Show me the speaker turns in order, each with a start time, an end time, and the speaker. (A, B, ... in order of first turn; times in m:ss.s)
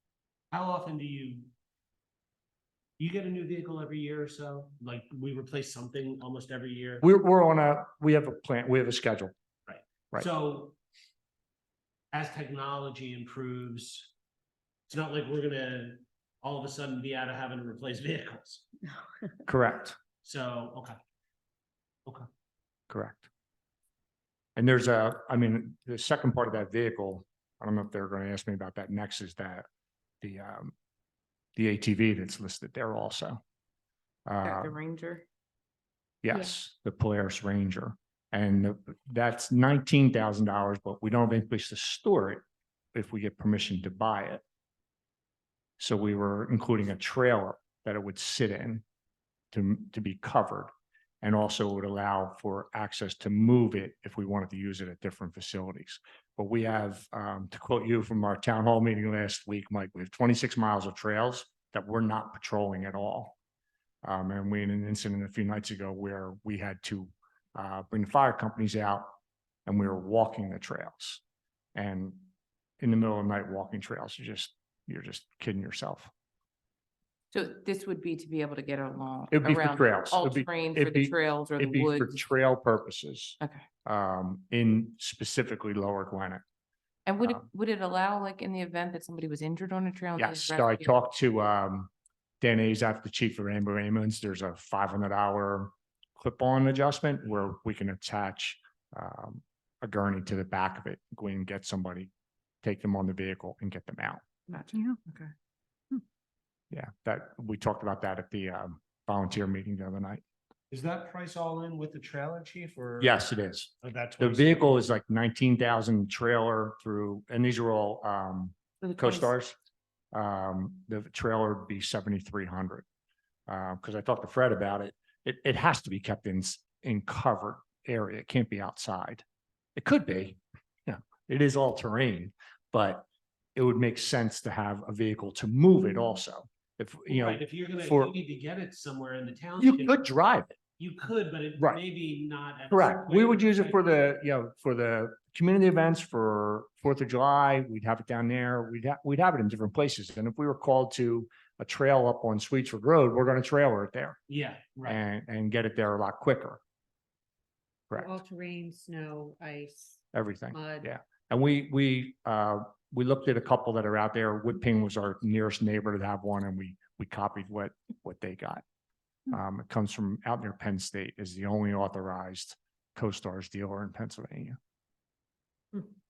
0:00.5-0:01.5 A
0:03.0-0:07.0 A
0:07.0-0:09.3 B
0:09.7-0:10.8 A
0:12.1-0:14.1 A
0:14.9-0:18.6 A
0:19.5-0:20.0 B
0:20.2-0:21.0 A
0:22.9-0:23.3 B
0:24.6-0:29.7 B
0:30.2-0:30.7 B
0:31.6-0:33.4 B
0:34.3-0:34.8 B
0:34.4-0:35.2 C
0:36.2-0:44.4 B
0:45.8-0:48.8 B
0:49.5-0:50.7 B
0:51.2-1:03.4 B
1:04.0-1:09.2 B
1:09.7-1:11.2 B
1:11.8-1:12.2 B
1:12.8-1:16.1 B
1:17.3-1:22.2 C
1:19.3-1:26.4 B
1:27.1-1:30.9 C
1:30.2-1:42.1 B
1:42.6-1:44.2 B
1:44.5-1:45.3 C
1:46.7-1:50.2 B
1:50.7-1:53.1 A
1:53.0-1:59.6 B
1:53.8-1:54.8 A
1:58.8-1:59.3 C
2:00.1-2:02.8 B
2:03.5-2:09.2 B
2:09.8-2:18.1 B
2:17.1-2:20.0 A
2:19.6-2:20.6 B
2:20.8-2:23.9 A
2:22.7-2:34.2 B
2:34.3-2:35.0 A
2:34.8-2:36.6 B
2:37.9-2:38.2 B
2:38.0-2:39.8 D
2:40.1-2:48.6 B
2:40.5-2:40.9 D
2:49.3-2:54.6 B